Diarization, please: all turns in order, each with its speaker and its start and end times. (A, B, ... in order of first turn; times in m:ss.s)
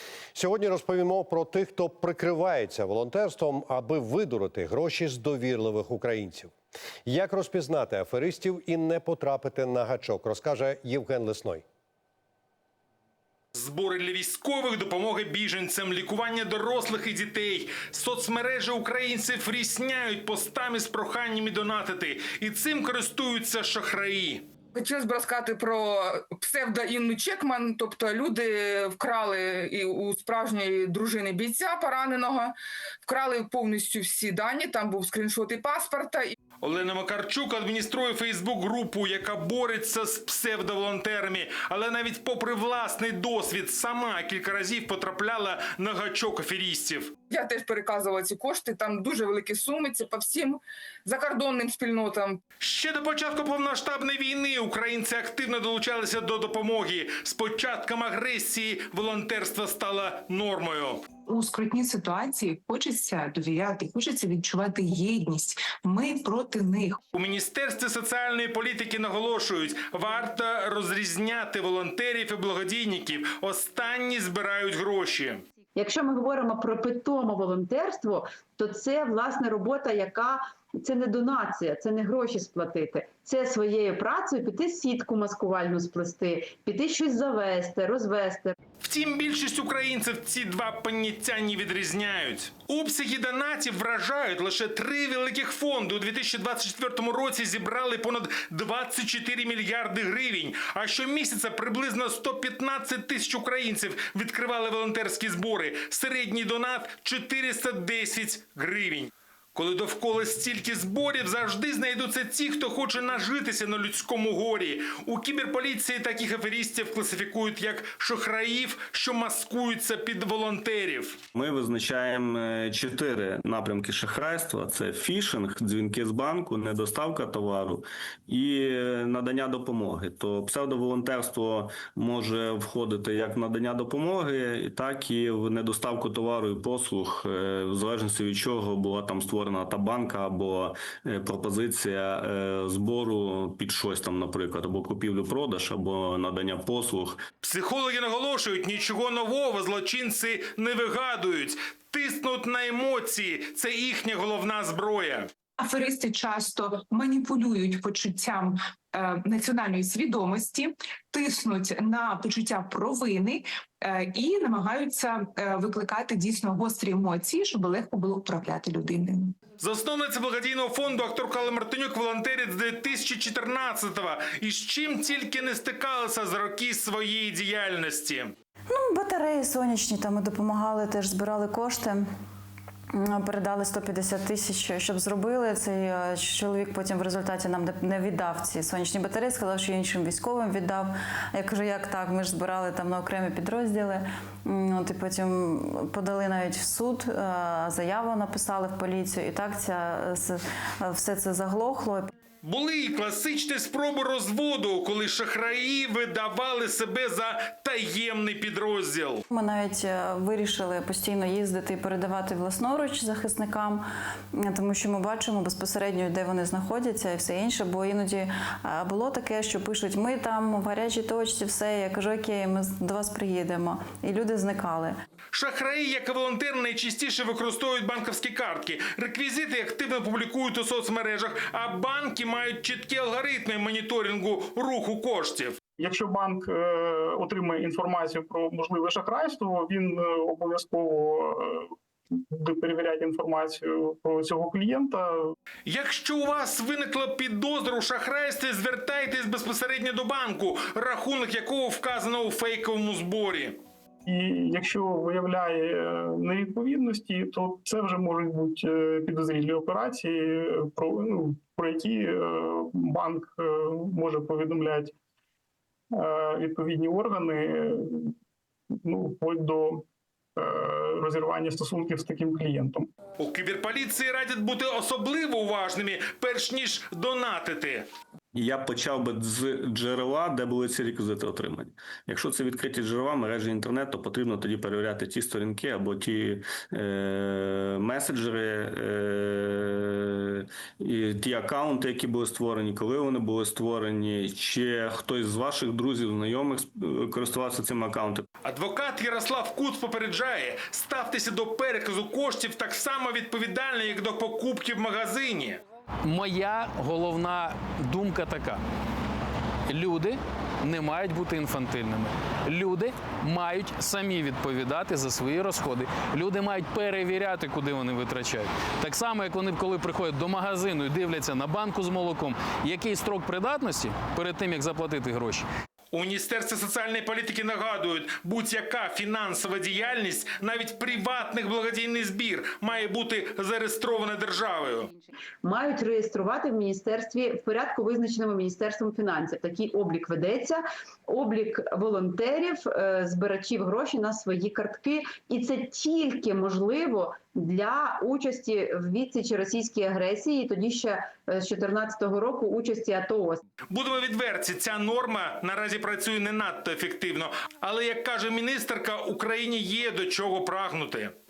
0:00.3-0:06.5 A
0:07.0-0:11.6 A
0:13.5-0:24.4 B
0:24.7-0:36.3 C
0:36.6-0:47.2 B
0:47.3-0:52.4 C
0:52.6-1:01.0 B
1:01.2-1:07.0 D
1:07.1-1:15.4 B
1:15.8-1:28.5 E
1:28.8-2:01.2 B
2:01.4-2:27.2 F
2:27.4-2:35.3 B
2:35.6-2:49.4 D
2:49.6-2:58.3 B
2:58.7-3:02.0 G
3:02.9-3:22.1 G
3:22.4-3:29.2 B
3:29.3-3:44.9 G
3:45.3-3:55.6 B
3:55.8-4:01.7 H
4:02.3-4:05.3 H
4:05.6-4:13.6 B
4:14.0-4:24.9 H
4:25.9-4:28.1 H
4:28.8-4:29.8 H
4:30.4-4:32.9 H
4:33.2-4:37.9 B
4:38.3-4:58.2 F
4:58.4-5:05.6 B
5:06.0-5:08.6 I
5:09.7-5:25.4 I
5:25.9-5:34.9 B
5:35.4-5:53.4 E
5:53.7-6:01.1 B